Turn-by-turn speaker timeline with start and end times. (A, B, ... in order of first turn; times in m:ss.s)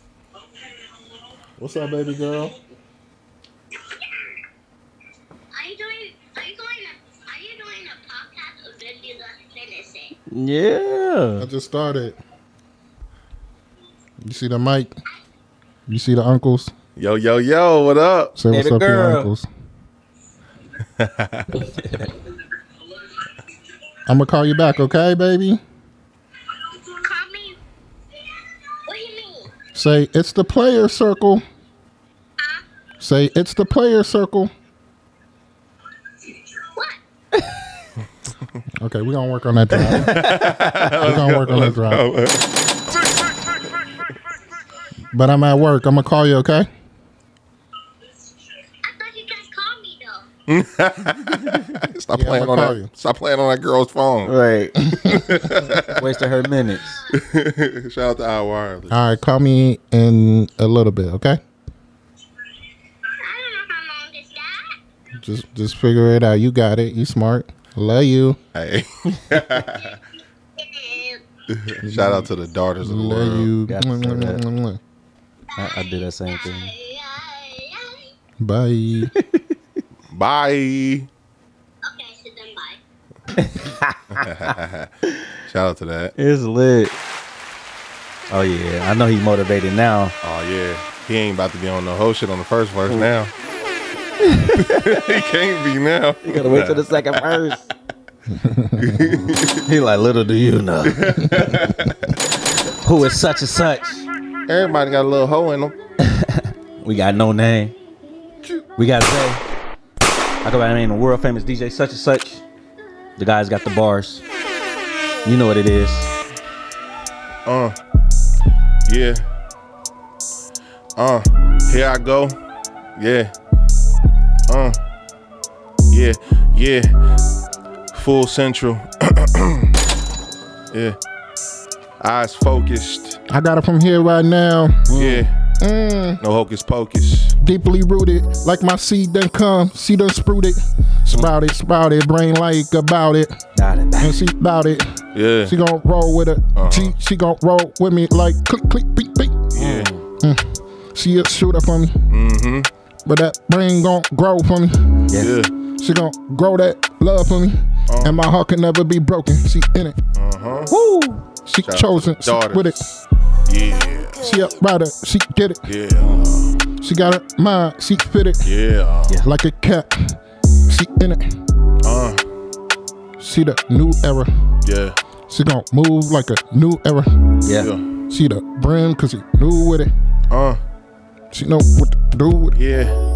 0:01.6-0:02.6 A
0:05.5-0:10.2 B
0:10.3-0:11.5 C
0:11.4-0:12.2 A
0:14.2-0:14.9 A
0:15.9-0:16.7 A
0:17.0-0:18.3 D
0:18.4-0:19.5 A
0:18.5-0:19.3 C
0:21.0-0:21.6 D
0:24.1-0:25.6 A
0:26.8-0:27.6 B
0:28.9-0:29.5 B
0:29.7-0:31.4 A
0:33.0-0:34.5 A
0:36.6-0:37.0 B
0:38.8-0:40.2 A
0:39.8-0:40.8 C
0:40.0-0:42.4 D
0:40.9-0:42.0 A
0:45.1-0:46.7 A
0:48.8-0:50.3 B
0:50.5-0:54.3 D
0:52.1-0:52.9 A
0:54.2-0:54.8 C
0:54.9-0:55.4 A
0:55.1-0:56.1 D
0:56.0-0:57.0 C
0:57.1-0:59.0 D
0:58.9-1:01.4 A
1:03.2-1:04.8 B
1:05.2-1:08.4 A
1:08.6-1:10.0 D
1:10.6-1:11.2 B
1:11.5-1:13.5 D
1:11.8-1:12.3 A
1:12.8-1:14.8 A
1:13.7-1:14.4 C
1:15.5-1:18.1 B
1:15.6-1:16.7 C
1:18.4-1:19.1 A
1:19.1-1:19.4 C
1:20.1-1:21.1 D
1:21.9-1:22.8 B
1:23.4-1:24.6 C
1:24.1-1:24.9 D
1:25.5-1:26.1 D
1:26.2-1:27.0 C
1:28.3-1:30.2 C
1:30.2-1:33.3 D
1:34.3-1:35.0 C
1:34.6-1:37.4 D
1:36.2-1:37.6 C
1:38.3-1:39.2 A
1:38.8-1:39.6 D
1:39.7-1:41.7 C
1:40.9-1:41.9 D
1:42.8-1:44.1 C
1:44.5-1:45.8 D
1:46.0-1:47.8 C
1:48.8-1:49.4 C
1:50.4-1:52.4 C
1:53.2-1:54.2 C
1:55.2-1:56.1 C
1:57.5-1:57.8 D
1:58.9-1:59.2 D
2:01.0-2:02.4 D
2:03.0-2:03.3 D
2:04.5-2:04.8 D
2:05.9-2:06.9 D
2:07.9-2:09.7 D
2:10.7-2:11.0 D
2:12.0-2:13.2 D
2:13.3-2:14.9 A
2:14.9-2:15.3 C
2:14.9-2:15.3 D
2:15.6-2:16.2 A
2:16.2-2:17.3 D
2:17.4-2:23.4 A
2:23.6-2:24.2 C
2:24.0-2:29.5 A
2:25.1-2:25.5 D
2:26.6-2:26.9 D
2:29.5-2:29.9 D
2:29.6-2:30.0 C
2:30.2-2:32.1 A
2:32.1-2:32.7 D
2:33.0-2:35.0 A
2:35.2-2:35.5 D
2:35.7-2:40.0 A
2:37.9-2:38.2 D
2:40.2-2:40.7 D
2:40.7-2:41.3 C
2:41.4-2:43.0 A
2:41.6-2:42.8 D
2:43.5-2:44.4 D
2:44.2-2:45.7 A
2:45.7-2:46.4 D
2:46.0-2:46.5 C
2:46.8-2:48.5 A
2:48.4-2:49.2 D
2:49.2-2:51.2 A
2:51.8-2:52.2 D
2:53.2-2:54.3 A
2:54.6-2:55.0 D
2:55.3-2:57.2 A
2:57.4-2:57.7 C
2:58.1-2:59.9 A
3:00.3-3:00.6 D
3:01.3-3:02.6 A
3:02.5-3:03.0 D